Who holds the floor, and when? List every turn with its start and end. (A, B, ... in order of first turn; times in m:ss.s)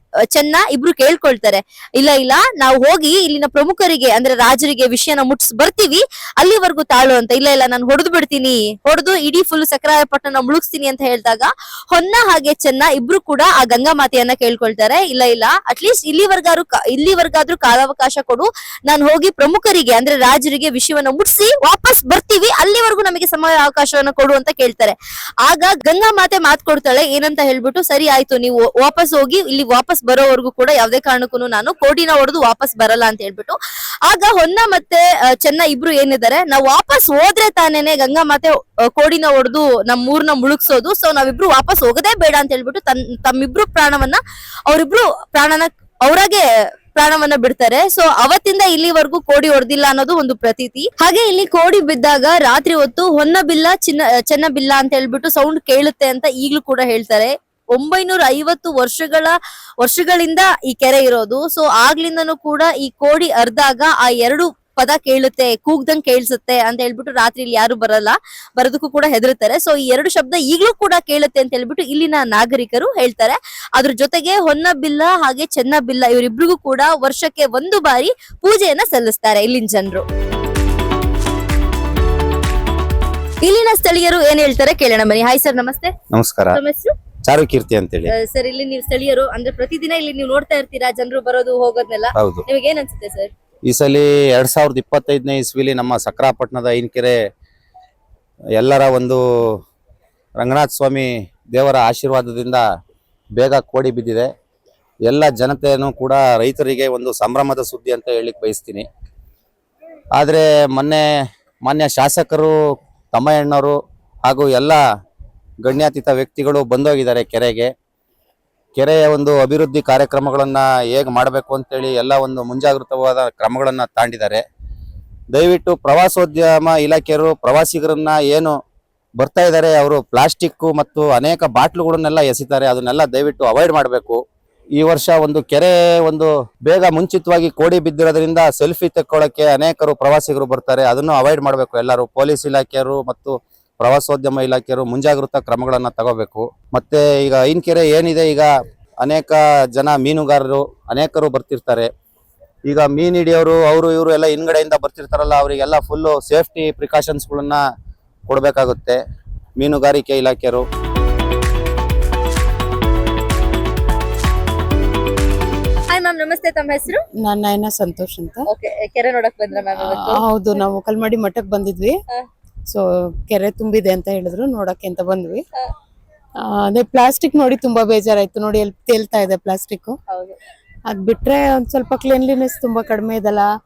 0:00.3-1:20.0 A
1:23.4-1:25.9 A
1:26.1-1:26.6 B
1:26.5-1:26.9 A
1:27.2-1:28.1 B
1:28.1-1:33.3 A
1:32.2-1:32.4 B
1:33.7-1:37.2 B
1:38.6-1:39.2 B
1:40.4-1:42.6 B
1:43.4-1:44.3 B
1:45.0-1:48.8 B
1:50.2-1:51.0 B
1:51.6-1:52.5 B
1:53.1-1:53.7 B
1:54.2-1:54.8 B
1:55.6-1:57.7 B
1:58.8-2:04.4 B
2:05.3-2:08.5 B
2:09.2-2:14.2 B
2:14.8-2:28.5 B
2:29.0-2:31.9 B
2:32.7-2:37.6 B
2:38.3-2:39.0 B
2:39.6-2:40.6 B
2:45.9-2:47.0 A
2:47.2-2:48.4 C
2:48.5-2:50.2 A
2:49.7-2:52.0 C
2:52.7-2:55.4 C
2:56.4-3:00.0 C
3:00.1-3:00.4 A
3:00.9-3:03.5 C